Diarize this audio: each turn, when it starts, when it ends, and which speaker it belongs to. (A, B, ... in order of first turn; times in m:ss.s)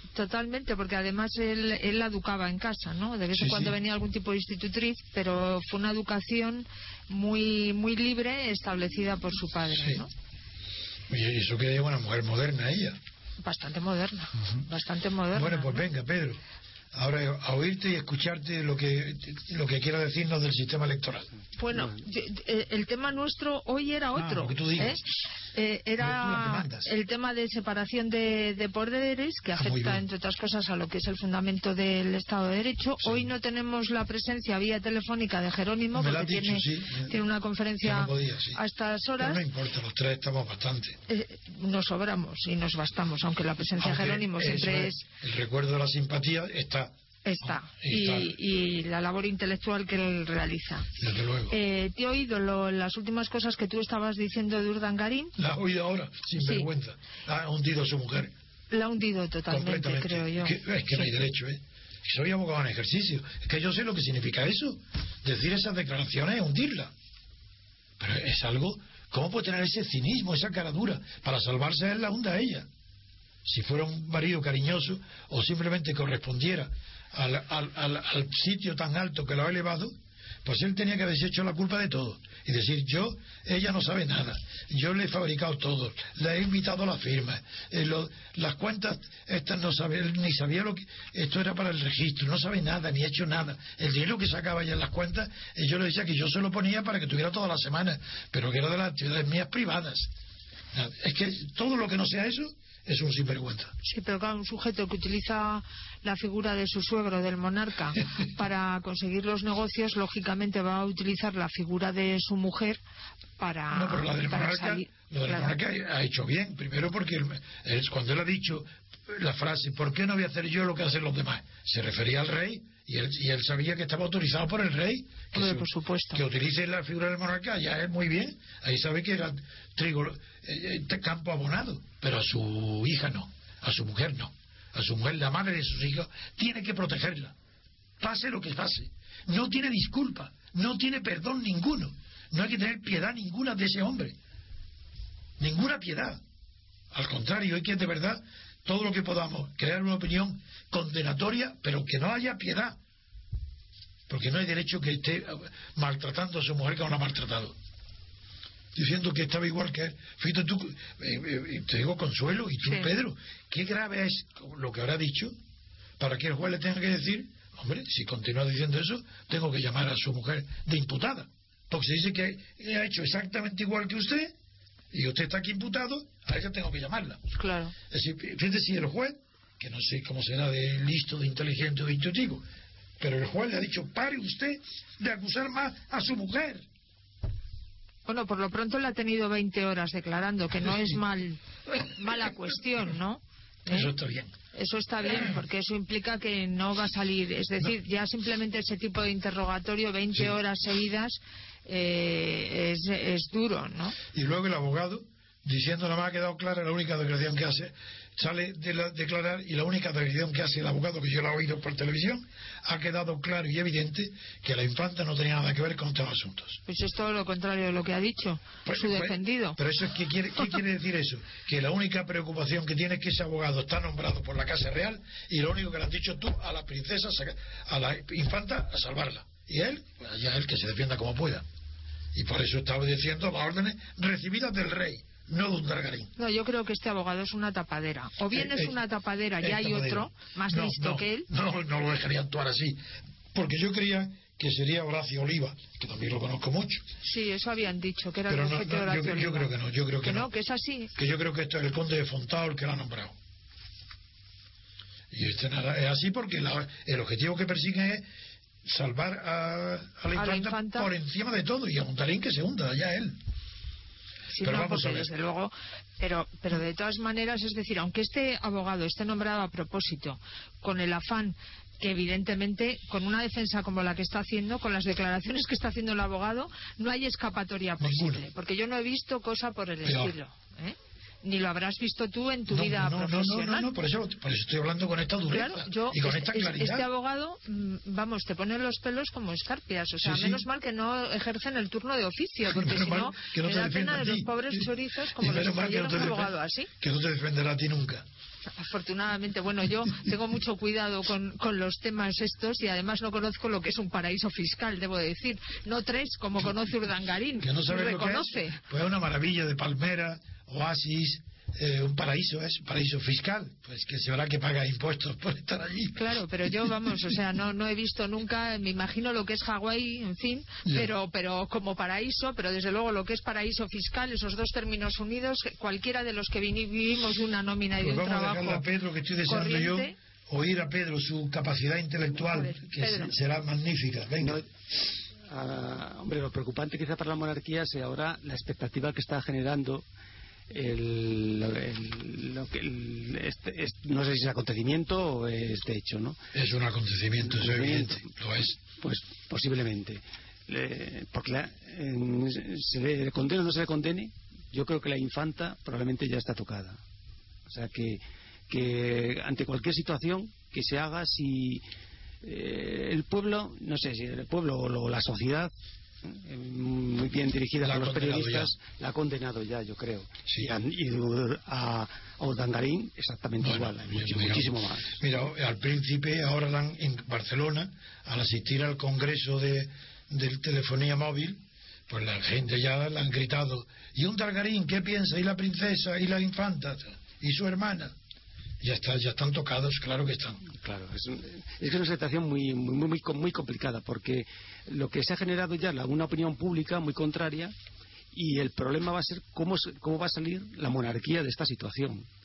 0:00.1-0:10.1 A
0:03.4-0:03.8 B
0:09.7-0:10.0 B
0:11.1-0:13.0 B
0:13.4-0:15.8 A
0:15.3-0:16.4 B
0:16.9-0:21.3 B
0:21.6-0:25.0 A
0:24.2-0:25.1 B
0:25.5-0:39.4 A
0:26.0-0:26.9 B
0:29.6-0:30.0 B
0:33.0-0:33.3 B
0:35.9-0:37.2 B
0:37.8-0:38.6 B
0:39.2-0:41.0 B
0:41.1-0:45.0 A
0:43.8-0:48.3 B
0:47.2-0:50.9 A
0:51.0-0:51.6 B
0:51.5-0:55.4 A
0:55.4-0:58.3 B
0:56.4-0:56.7 A
0:58.7-1:01.1 A
0:59.5-1:06.9 B
1:08.0-1:12.7 B
1:13.4-1:40.1 B
1:40.7-1:43.7 B
1:43.8-1:52.8 A
1:53.4-1:55.6 A
1:53.7-2:17.4 B
2:05.3-2:06.2 A
2:18.0-2:24.2 B
2:25.4-2:26.2 B
2:26.9-2:32.8 B
2:34.1-2:37.6 B
2:38.7-2:45.3 B
2:46.0-2:54.3 B
2:54.9-2:57.2 B
2:57.4-2:57.7 A
2:57.9-3:02.4 B
3:03.0-3:06.7 B
3:08.1-3:13.9 A
3:13.7-3:14.3 B
3:14.5-3:24.0 A
3:24.1-3:36.6 B
3:36.7-3:39.6 A
3:38.6-3:51.4 B
3:52.1-3:56.1 B
3:56.2-4:01.3 A
3:58.3-3:58.8 B
3:59.4-4:02.8 B
4:03.3-4:06.9 B
4:07.0-4:09.5 A
4:08.3-4:10.3 B
4:10.0-4:10.9 A
4:11.0-4:13.2 B
4:15.1-4:18.0 B
4:18.6-4:23.2 B
4:20.1-4:20.9 A
4:24.3-4:43.7 A
4:24.4-4:25.1 B
4:37.8-4:38.2 B
4:39.8-4:40.2 B
4:42.5-4:46.9 B
4:45.3-4:56.7 A
4:50.0-4:50.4 B
4:52.5-4:54.7 B
4:55.2-4:58.0 B
4:58.6-5:08.6 A
5:07.4-5:16.9 B
5:16.0-5:28.6 A
5:20.6-5:20.9 B
5:27.8-5:34.5 B
5:29.2-5:30.0 A
5:32.1-5:33.2 A
5:35.3-5:39.8 C
5:40.5-5:46.2 C
5:46.3-5:48.6 B
5:47.3-5:48.0 C
5:48.8-5:56.8 C
5:57.5-6:01.6 C
6:02.2-6:05.5 C
6:06.0-6:15.0 C
6:07.6-6:08.5 B
6:13.4-6:28.0 B
6:28.6-6:30.4 B
6:30.5-6:37.5 C
6:38.1-6:42.1 C